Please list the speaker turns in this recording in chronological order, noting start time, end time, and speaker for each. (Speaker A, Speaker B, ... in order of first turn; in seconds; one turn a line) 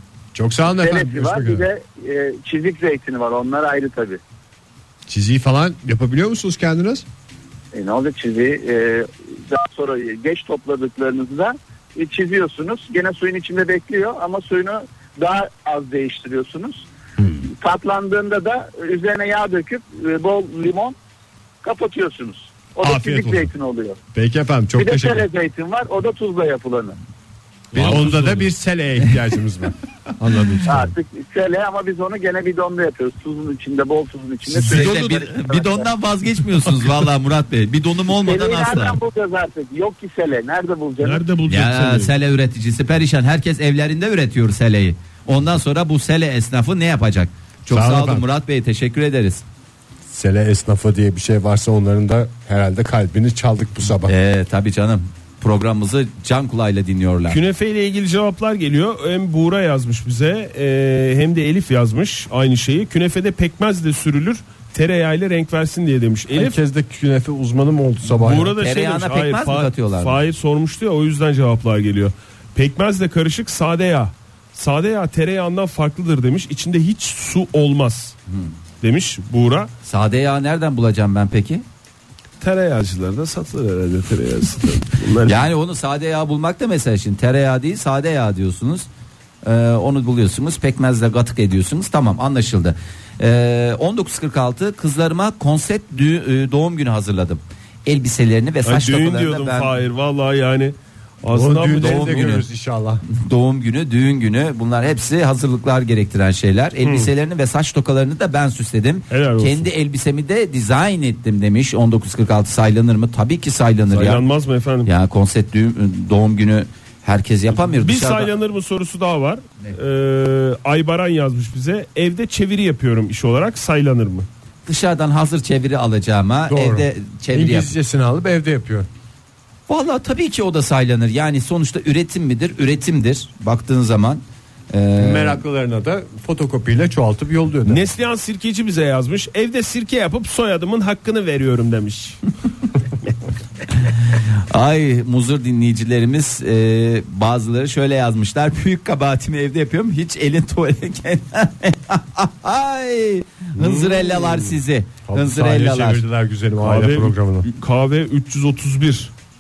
Speaker A: 0.3-1.7
Speaker B: 0.8-4.2
Speaker A: 5.1-7.0
Speaker B: 7.7-16.9
Speaker A: 17.2-17.4
Speaker B: 17.5-21.0
Speaker B: 21.6-24.0
Speaker A: 22.8-23.5
Speaker A: 24.1-25.3
Speaker B: 24.8-27.0
Speaker C: 27.7-28.5
Speaker A: 27.8-30.9
Speaker B: 30.7-35.9
Speaker D: 34.5-39.0
Speaker C: 34.6-34.9
Speaker B: 38.1-41.2
Speaker C: 41.0-42.1
Speaker D: 41.5-49.4
Speaker A: 47.7-48.3
Speaker A: 50.1-54.1
Speaker D: 54.1-57.4
Speaker C: 57.3-66.6
Speaker A: 66.3-68.6
Speaker C: 68.2-78.2
Speaker D: 68.6-70.2
Speaker D: 78.3-78.5
Speaker C: 78.8-79.7
Speaker D: 79.8-81.6
Speaker C: 82.4-85.5
Speaker D: 85.2-88.9
Speaker D: 89.4-99.7
Speaker C: 98.6-102.4
Speaker A: 101.3-103.0
Speaker D: 101.8-102.4
Speaker D: 103.1-114.2
Speaker C: 106.8-107.1
Speaker C: 109.1-109.7
Speaker C: 113.9-114.9
Speaker D: 114.8-118.3
Speaker C: 117.6-124.3
Speaker D: 124.7-127.7
Speaker A: 126.5-128.9
Speaker D: 129.7-135.4
Speaker A: 135.0-137.9
Speaker C: 137.7-142.2
Speaker D: 143.9-156.1
Speaker C: 153.6-154.4
Speaker A: 155.1-157.5
Speaker C: 156.6-159.1